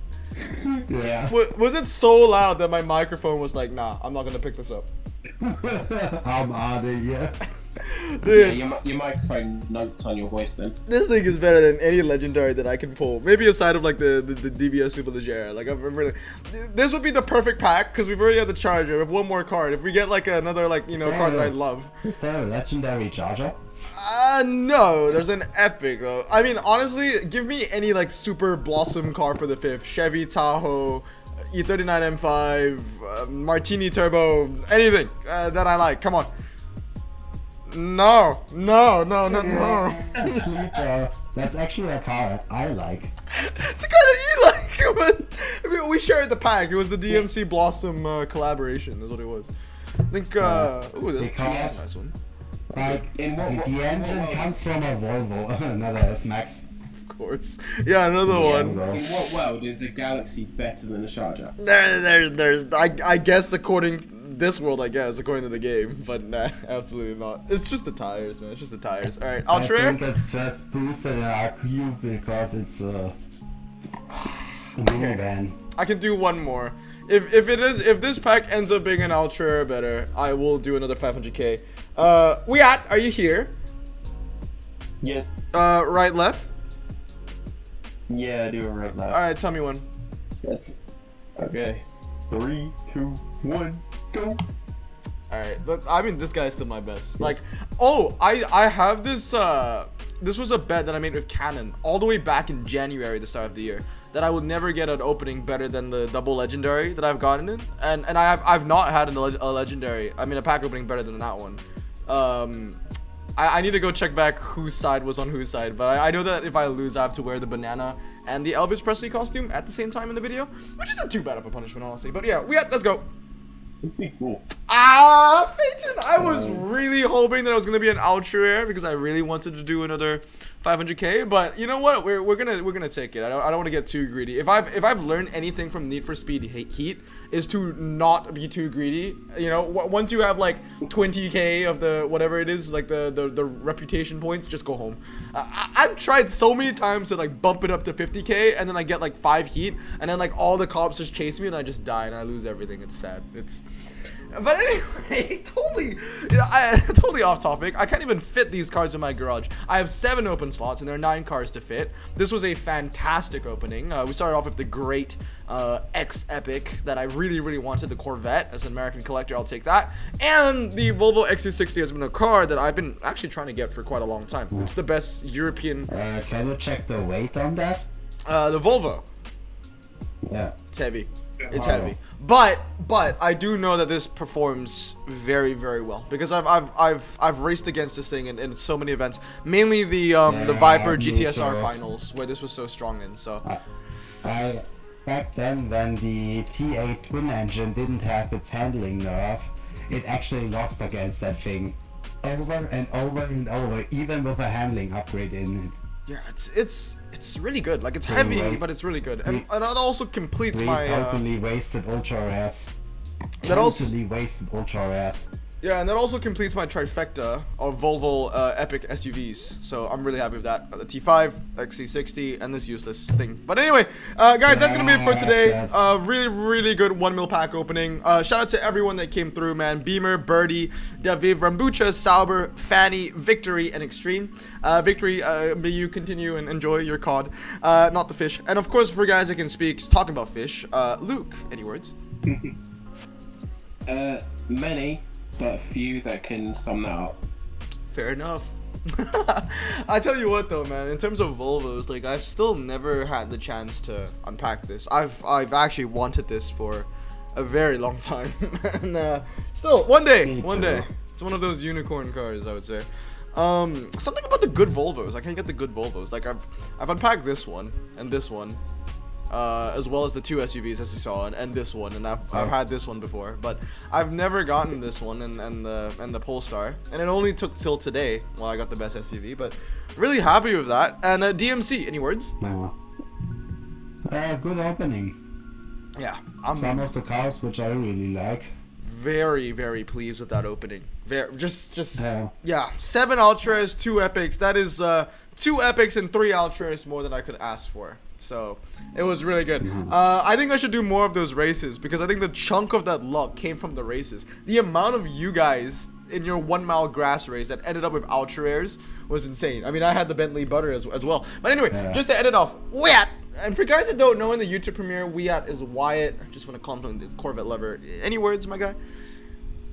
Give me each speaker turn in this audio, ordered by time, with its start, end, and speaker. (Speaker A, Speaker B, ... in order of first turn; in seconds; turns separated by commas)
Speaker A: 0.4-1.3, Speaker B: 1.3-4.9, Speaker A: 5.4-7.4, Speaker B: 7.8-8.6, Speaker C: 8.2-10.7, Speaker B: 10.9-21.9, Speaker A: 20.9-23.6, Speaker B: 23.9-36.3, Speaker B: 37.7-40.4, Speaker A: 39.3-43.1, Speaker B: 43.3-49.5, Speaker B: 50.1-52.1, Speaker A: 50.4-51.9, Speaker A: 52.7-56.6, Speaker B: 52.7-53.0, Speaker C: 53.1-54.5, Speaker B: 57.0-58.8, Speaker A: 58.2-59.0, Speaker C: 58.9-61.5, Speaker B: 61.6-70.0, Speaker A: 69.5-73.1, Speaker A: 74.8-75.5, Speaker B: 74.8-75.2, Speaker B: 75.8-83.5, Speaker B: 85.5-86.5, Speaker D: 88.1-89.2, Speaker B: 89.1-89.9, Speaker D: 90.4-90.8, Speaker D: 91.4-94.4, Speaker B: 95.3-112.8, Speaker B: 113.4-123.0, Speaker C: 123.8-124.4, Speaker B: 124.7-153.6, Speaker A: 126.2-126.6, Speaker B: 154.3-175.9, Speaker A: 175.9-177.9, Speaker B: 178.3-179.0, Speaker A: 180.2-180.5, Speaker B: 180.7-193.4, Speaker A: 181.5-181.9, Speaker A: 190.2-191.7, Speaker A: 194.2-205.7, Speaker B: 206.1-211.2, Speaker A: 208.1-208.6, Speaker A: 210.5-212.7, Speaker B: 213.4-213.9, Speaker A: 213.4-215.2, Speaker B: 215.6-241.9, Speaker A: 224.4-225.7, Speaker C: 242.3-242.5, Speaker C: 243.9-247.2, Speaker B: 247.9-268.6, Speaker A: 260.2-260.9, Speaker B: 269.3-282.3, Speaker A: 282.4-282.7, Speaker A: 284.1-285.1, Speaker B: 285.9-286.9, Speaker A: 286.5-288.5, Speaker B: 288.8-318.8, Speaker A: 291.9-292.3, Speaker A: 299.6-299.9, Speaker A: 311.7-312.0